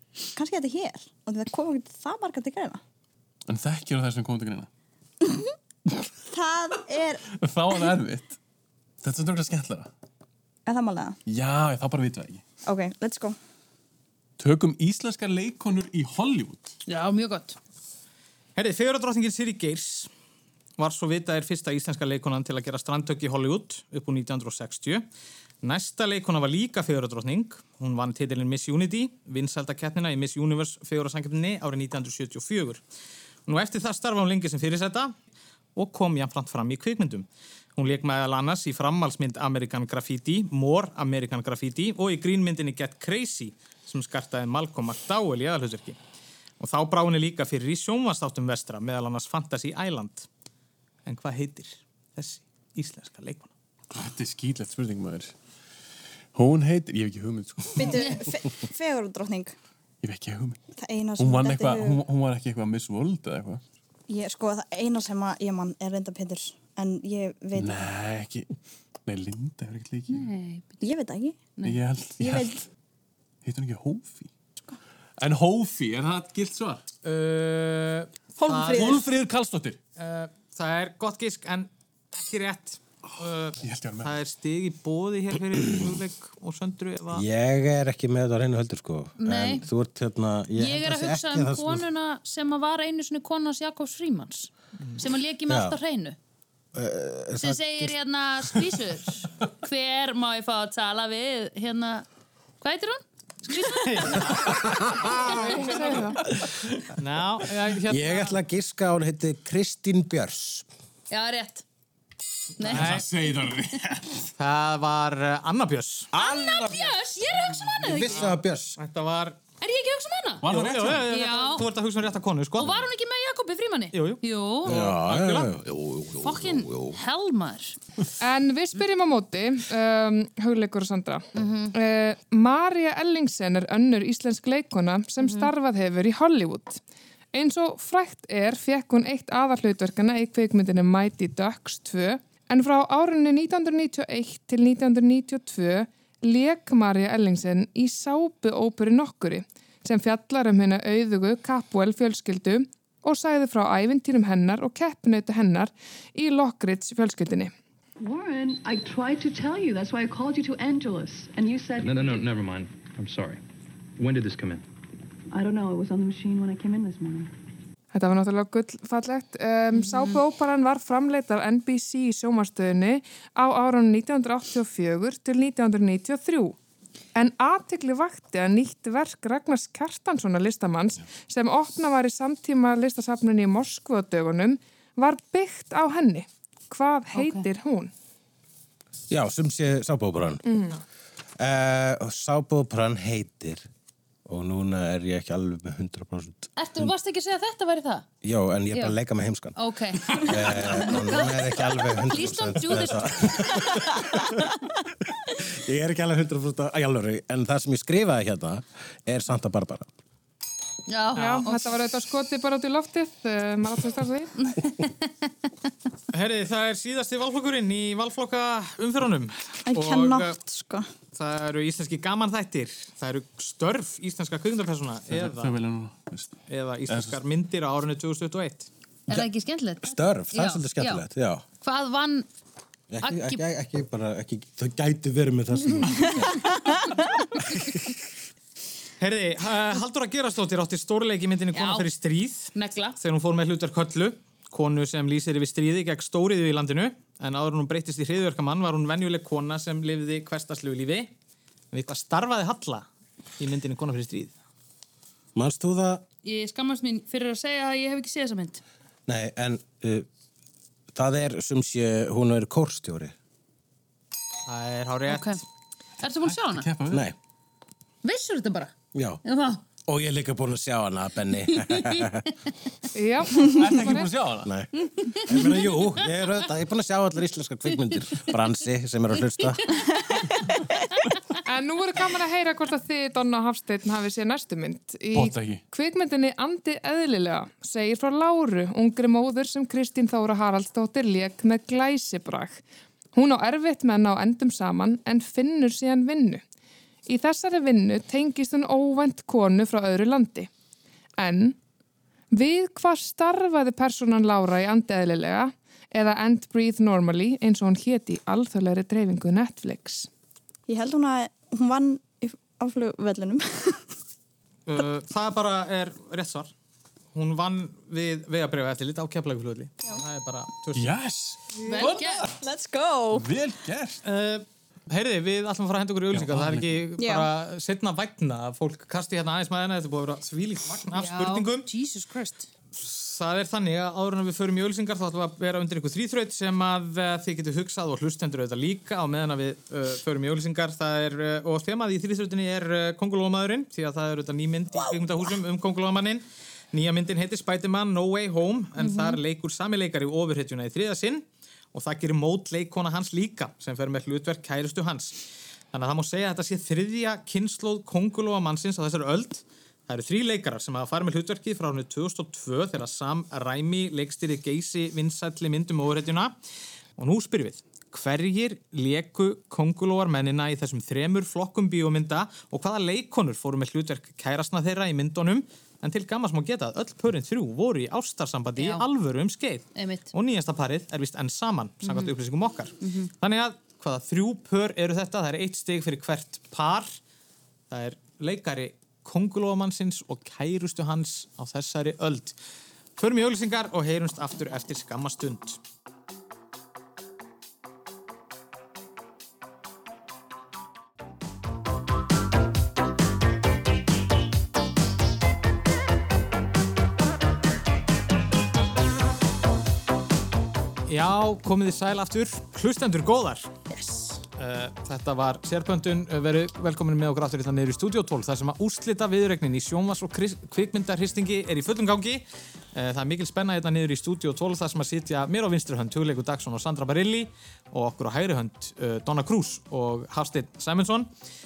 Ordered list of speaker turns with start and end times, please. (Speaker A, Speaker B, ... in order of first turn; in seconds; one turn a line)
Speaker A: 0.3-2.8
Speaker B: 3.5-4.7
Speaker A: 5.2-5.5
Speaker A: 6.3-7.2
Speaker B: 7.3-8.4
Speaker B: 9.0-9.9
Speaker A: 10.7-11.2
Speaker B: 11.2-12.4
Speaker A: 12.7-13.4
Speaker B: 14.4-16.7
Speaker C: 16.9-17.6
Speaker D: 18.6-20.1
Speaker D: 20.8-25.0
Speaker D: 25.6-32.8
Speaker D: 33.5-35.1
Speaker D: 35.8-46.0
Speaker D: 46.6-50.3
Speaker D: 51.0-53.5
Speaker B: 53.9-55.3
Speaker B: 56.3-58.0
Speaker A: 57.7-59.5
Speaker B: 60.0-60.6
Speaker A: 60.8-62.0
Speaker B: 61.2-63.6
Speaker A: 64.1-67.8
Speaker B: 67.5-68.5
Speaker B: 69.1-70.3
Speaker C: 70.1-70.8
Speaker A: 70.8-71.4
Speaker B: 71.6-72.6
Speaker A: 72.2-72.6
Speaker B: 73.4-74.3
Speaker B: 75.2-76.8
Speaker D: 77.0-79.0
Speaker A: 78.4-79.1
Speaker B: 78.6-79.8
Speaker D: 80.0-87.2
Speaker B: 83.6-84.1
Speaker E: 87.1-91.8
Speaker C: 89.2-89.7
Speaker C: 90.5-96.2
Speaker E: 95.5-95.8
Speaker E: 96.7-98.0
Speaker C: 97.4-102.0
Speaker C: 102.6-104.3
Speaker D: 103.7-104.6
Speaker E: 104.5-105.6
Speaker C: 105.1-105.7
Speaker F: 105.6-106.2
Speaker D: 107.0-108.4
Speaker E: 107.9-110.7
Speaker C: 111.1-111.6
Speaker C: 112.6-113.0
Speaker B: 112.7-114.3
Speaker D: 112.7-113.0
Speaker D: 114.4-116.1
Speaker C: 116.1-118.3
Speaker E: 116.1-118.8
Speaker D: 118.1-119.4
Speaker C: 119.6-120.5
Speaker B: 120.4-121.1
Speaker D: 120.5-122.8
Speaker C: 121.0-121.6
Speaker C: 122.6-124.8
Speaker D: 123.9-125.5
Speaker E: 124.7-127.0
Speaker C: 126.2-127.8
Speaker F: 128.2-136.8
Speaker C: 131.3-131.7
Speaker C: 135.2-135.5
Speaker F: 137.3-157.5
Speaker G: 158.0-162.2
Speaker H: 161.8-163.4
Speaker H: 164.0-164.6
Speaker G: 165.3-167.3
Speaker F: 167.9-176.6
Speaker C: 169.8-170.2
Speaker F: 177.1-187.9
Speaker C: 187.1-187.4
Speaker E: 189.1-190.4
Speaker F: 190.4-190.8
Speaker E: 191.4-193.7
Speaker E: 194.2-196.9
Speaker C: 196.6-198.1
Speaker E: 198.2-199.6
Speaker C: 199.6-203.5
Speaker E: 200.1-204.4
Speaker E: 205.3-209.8
Speaker C: 210.9-211.8
Speaker F: 211.2-214.3
Speaker C: 214.4-215.3
Speaker D: 216.1-220.4
Speaker A: 219.7-220.9
Speaker D: 221.1-225.5
Speaker B: 225.1-226.3
Speaker D: 226.5-228.7
Speaker B: 226.9-227.2
Speaker C: 229.1-231.0
Speaker E: 229.8-231.4
Speaker C: 231.6-232.3
Speaker E: 232.9-236.5
Speaker C: 233.0-233.4
Speaker D: 239.0-251.1
Speaker C: 241.5-241.9
Speaker C: 242.5-243.0
Speaker D: 251.7-252.8
Speaker D: 253.4-254.3
Speaker E: 255.3-256.0
Speaker C: 256.2-258.6
Speaker E: 259.1-260.1
Speaker E: 260.9-263.1
Speaker D: 264.4-265.4
Speaker C: 265.1-265.4
Speaker C: 266.0-266.7
Speaker B: 266.2-267.1
Speaker C: 268.0-268.7
Speaker E: 268.9-269.2
Speaker C: 269.2-269.6
Speaker E: 269.8-272.2
Speaker C: 271.5-272.1
Speaker F: 272.9-274.1
Speaker B: 273.5-274.5
Speaker E: 274.4-279.6
Speaker C: 275.0-275.9
Speaker F: 281.4-292.6
Speaker B: 285.1-285.6
Speaker F: 293.1-296.4
Speaker F: 297.1-300.5
Speaker F: 301.2-301.6
Speaker F: 302.3-310.1
Speaker A: 310.7-313.8
Speaker D: 314.7-316.5
Speaker D: 317.1-320.9
Speaker B: 320.7-322.2
Speaker A: 321.6-323.3
Speaker C: 321.6-322.3
Speaker B: 323.1-324.0
Speaker D: 324.0-331.7
Speaker B: 326.1-326.8
Speaker A: 327.0-327.3
Speaker C: 330.9-332.5
Speaker D: 332.7-355.2
Speaker C: 348.8-349.2
Speaker D: 355.7-366.3
Speaker D: 367.0-387.0
Speaker C: 378.6-378.9
Speaker C: 379.7-380.1
Speaker C: 381.8-382.1
Speaker C: 382.8-383.1
Speaker D: 387.7-392.4
Speaker D: 393.0-395.6
Speaker D: 410.9-413.5
Speaker A: 413.7-414.2
Speaker D: 414.4-431.1